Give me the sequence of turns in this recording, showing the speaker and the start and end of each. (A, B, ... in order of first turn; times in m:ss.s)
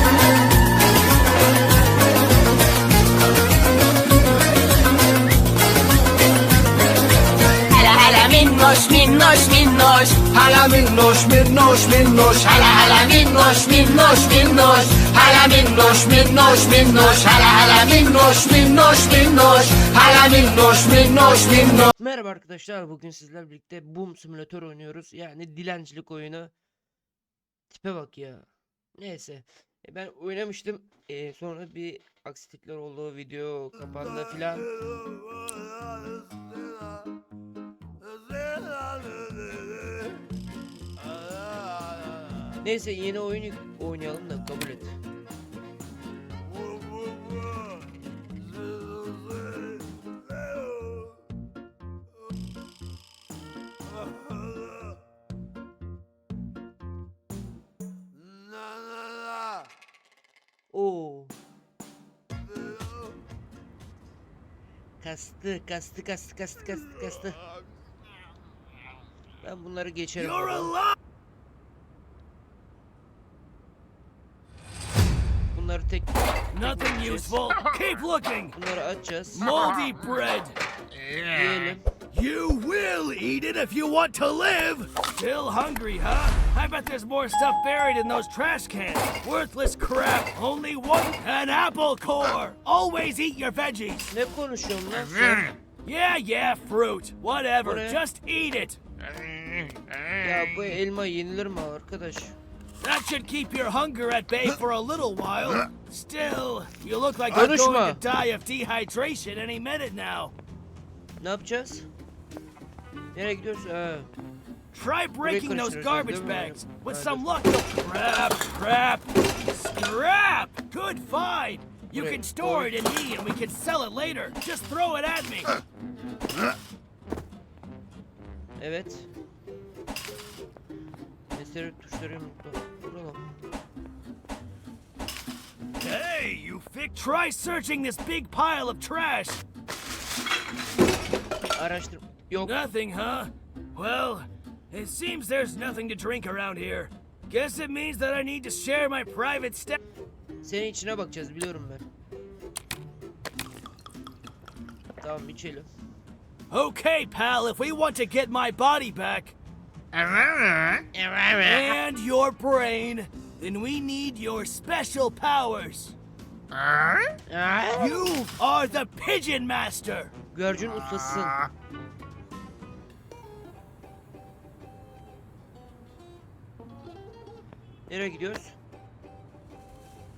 0:07.7-0:21.9 A
0:22.0-0:26.5 B
0:27.7-0:34.7 B
0:42.6-0:44.9 B
1:00.7-1:01.3 B
1:05.0-1:07.4 B
1:09.4-1:10.7 B
1:10.2-1:10.9 C
1:15.5-1:17.4 B
1:16.5-1:18.6 C
1:18.5-1:19.5 B
1:19.3-1:20.6 C
1:21.2-1:21.8 B
1:22.1-1:34.1 C
1:34.1-1:35.5 B
1:35.8-1:38.8 C
1:37.6-1:38.0 B
1:40.2-1:42.3 B
1:42.8-1:50.3 C
1:47.3-1:48.0 B
1:51.2-1:51.8 B
1:53.1-1:54.1 B
1:54.7-2:05.6 C
1:55.2-1:57.3 B
2:01.9-2:02.7 B
2:08.6-2:09.1 B
2:11.3-2:13.2 B
2:15.8-2:19.4 C
2:21.5-2:22.5 B
2:22.4-2:29.8 C
2:30.4-2:31.8 B
2:35.0-2:35.7 B
2:36.5-2:39.3 C
2:40.9-2:41.8 B
2:41.4-2:45.9 C
2:47.3-2:48.0 B
2:47.8-2:50.1 C
2:50.3-2:51.4 B
2:57.9-2:58.5 B